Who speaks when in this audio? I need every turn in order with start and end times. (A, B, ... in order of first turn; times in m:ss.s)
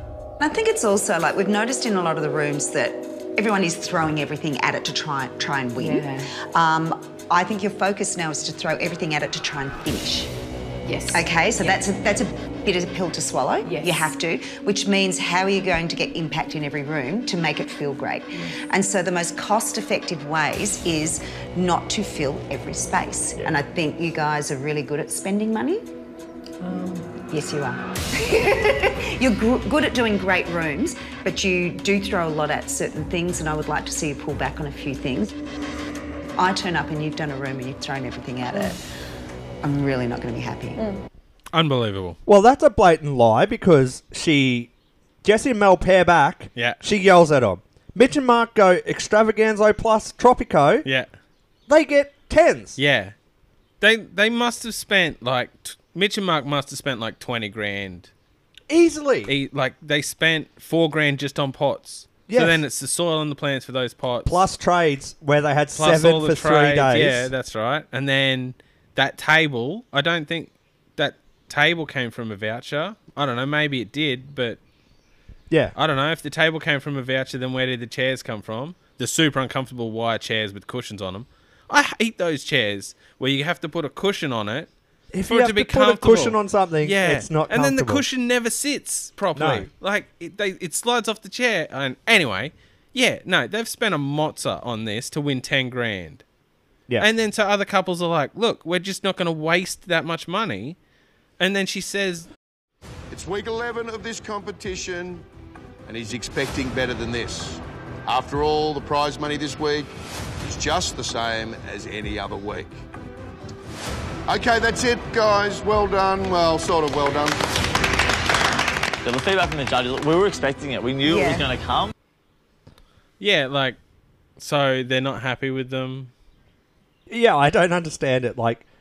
0:00.4-0:10.3 A
0:05.8-0:06.3 B
0:10.8-0:11.8 B
0:11.1-0:25.8 A
0:13.6-0:14.2 B
0:27.3-0:35.3 A
0:36.4-0:38.8 A
0:39.6-0:40.8 A
0:41.5-0:42.2 C
0:42.3-0:44.7 D
0:45.2-0:50.9 D
0:50.8-0:51.1 C
0:51.7-0:52.8 D
0:52.8-0:53.2 C
0:53.8-0:58.1 C
0:58.7-0:59.3 D
0:59.3-1:04.4 C
1:02.3-1:02.6 D
1:04.2-1:07.3 D
1:05.8-1:14.6 C
1:15.8-1:24.7 C
1:25.1-1:28.0 D
1:25.3-1:36.2 C
1:29.4-1:29.7 D
1:37.0-1:40.8 C
1:41.4-1:42.3 C
1:43.1-1:45.2 E
1:45.9-1:49.9 E
1:50.4-1:52.8 E
1:54.3-1:57.4 E
1:59.0-2:01.9 F
2:01.1-2:01.4 A
2:03.2-2:03.8 C
2:04.4-2:06.1 C
2:07.1-2:08.6 D